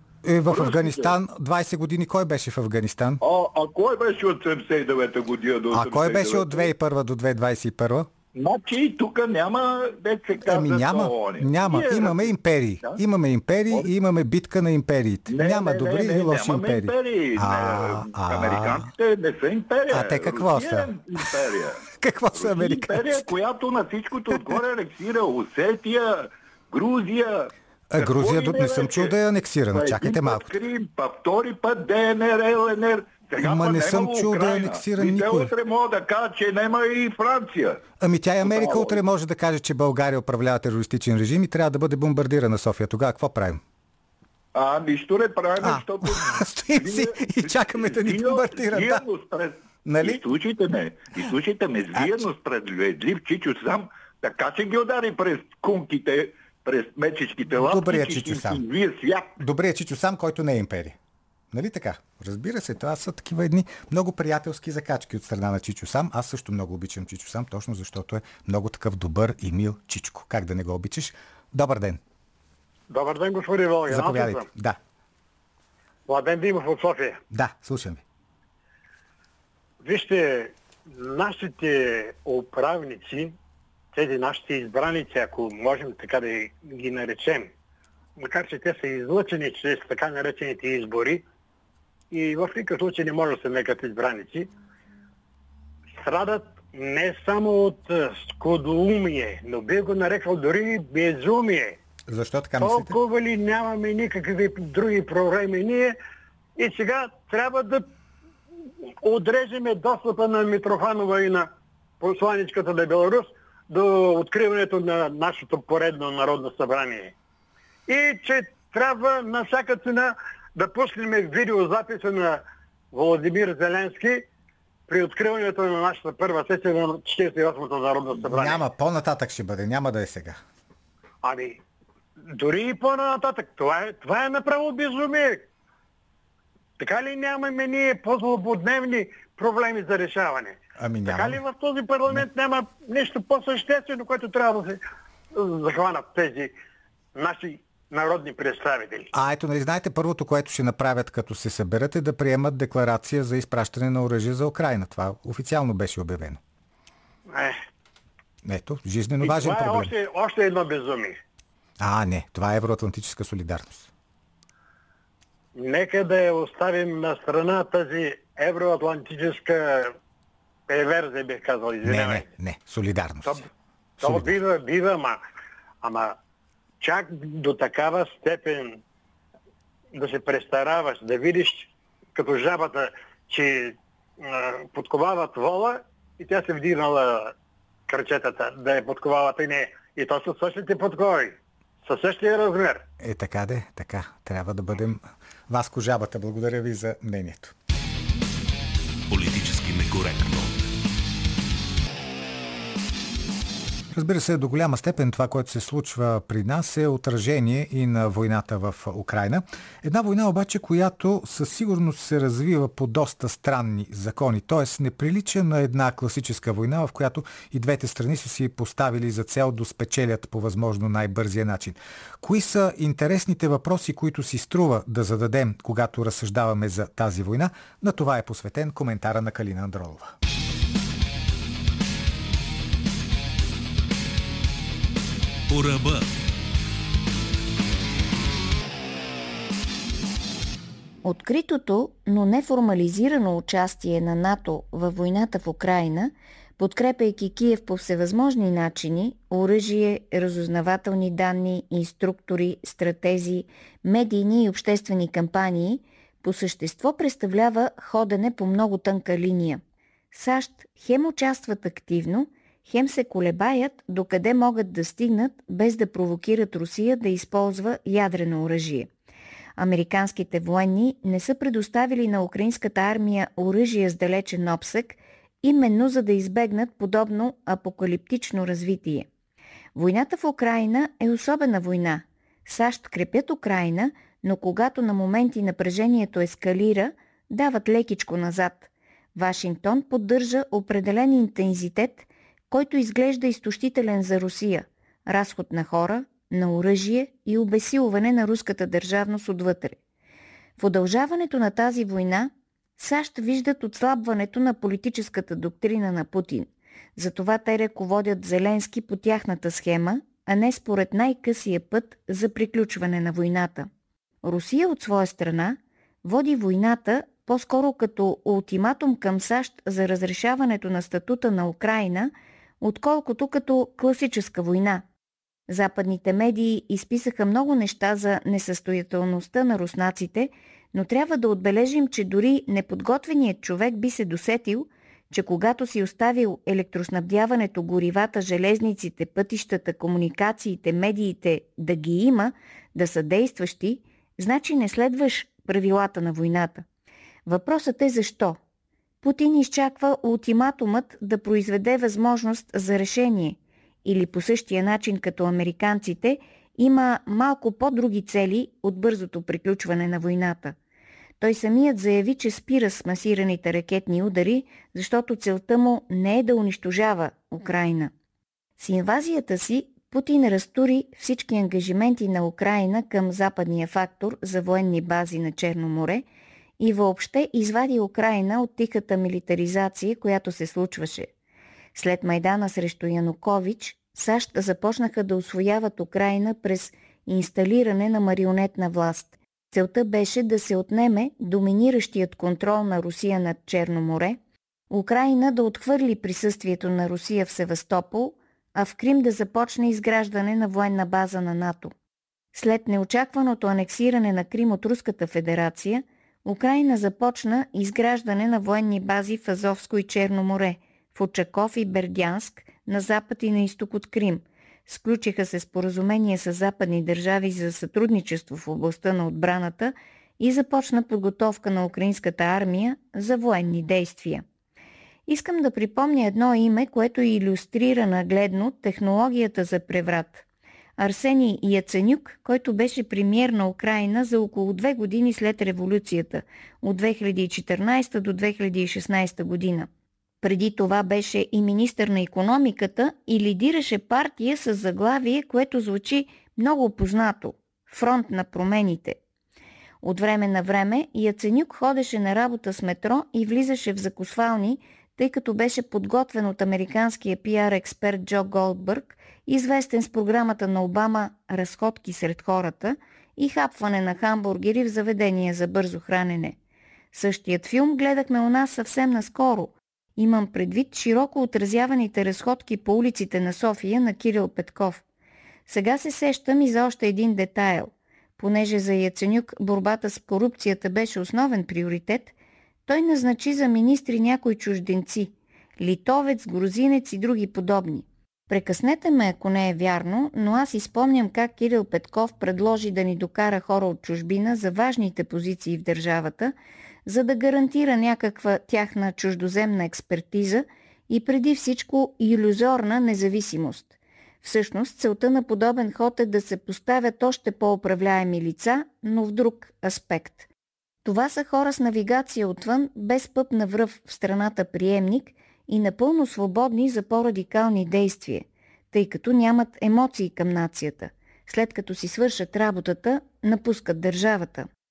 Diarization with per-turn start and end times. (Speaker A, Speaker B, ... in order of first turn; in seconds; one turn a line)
Speaker A: 0.2-3.2
Speaker B: 0.5-1.2
Speaker B: 3.2-6.7
Speaker A: 5.7-8.1
Speaker B: 8.3-13.0
Speaker A: 10.4-18.9
Speaker B: 15.3-29.1
Speaker A: 19.9-21.4
Speaker A: 21.9-23.3
Speaker A: 24.3-24.6
Speaker A: 27.9-30.5
Speaker B: 29.7-37.8
Speaker A: 33.4-35.5
Speaker A: 38.0-43.6
Speaker B: 38.4-39.0
Speaker B: 44.5-59.4
Speaker A: 45.6-49.0
Speaker A: 49.8-50.2
Speaker A: 57.5-58.6
Speaker A: 59.4-61.0
Speaker A: 61.5-72.0
Speaker C: 72.9-74.5
Speaker A: 73.9-74.8
Speaker C: 76.1-77.2
Speaker A: 77.3-78.0
Speaker C: 79.8-83.3
Speaker C: 83.9-87.5
Speaker C: 88.2-91.2
Speaker C: 92.1-94.5
Speaker C: 96.0-101.8
Speaker A: 102.1-102.9
Speaker C: 102.6-106.0
Speaker C: 106.6-107.9
Speaker C: 109.0-117.1
Speaker C: 117.9-124.3
Speaker C: 124.9-128.6
Speaker A: 128.3-130.4
Speaker C: 131.2-131.6
Speaker C: 132.3-135.5
Speaker C: 136.8-144.8
Speaker A: 140.8-141.4
Speaker C: 145.3-146.5
Speaker C: 147.1-149.1
Speaker A: 149.1-156.4
Speaker C: 157.3-157.6
Speaker A: 158.4-159.9
Speaker C: 159.2-161.2
Speaker A: 161.8-163.9
Speaker C: 165.5-170.0
Speaker C: 170.7-172.3
Speaker A: 171.8-173.5
Speaker C: 174.0-175.2
Speaker A: 174.0-174.3
Speaker C: 175.8-176.2
Speaker C: 176.8-178.8
Speaker C: 179.9-187.3
Speaker C: 187.9-192.8
Speaker A: 193.0-197.5
Speaker D: 199.1-200.6
Speaker A: 203.9-230.1
Speaker D: 235.5-236.1
Speaker E: 241.0-268.9
Speaker E: 269.6-279.1
Speaker E: 279.7-299.8
Speaker E: 300.6-313.7
Speaker E: 314.2-324.8
Speaker E: 325.5-346.6
Speaker E: 347.2-348.4
Speaker E: 349.0-360.6
Speaker E: 361.2-367.9
Speaker E: 368.6-376.0
Speaker E: 376.6-381.1
Speaker E: 381.7-394.2
Speaker E: 394.7-401.7
Speaker E: 402.3-424.2
Speaker E: 425.1-430.2
Speaker E: 430.8-439.7
Speaker E: 440.2-449.0
Speaker E: 449.8-466.4
Speaker E: 466.9-474.8
Speaker E: 475.5-482.1
Speaker E: 482.7-496.3
Speaker E: 496.9-510.3
Speaker E: 510.8-524.5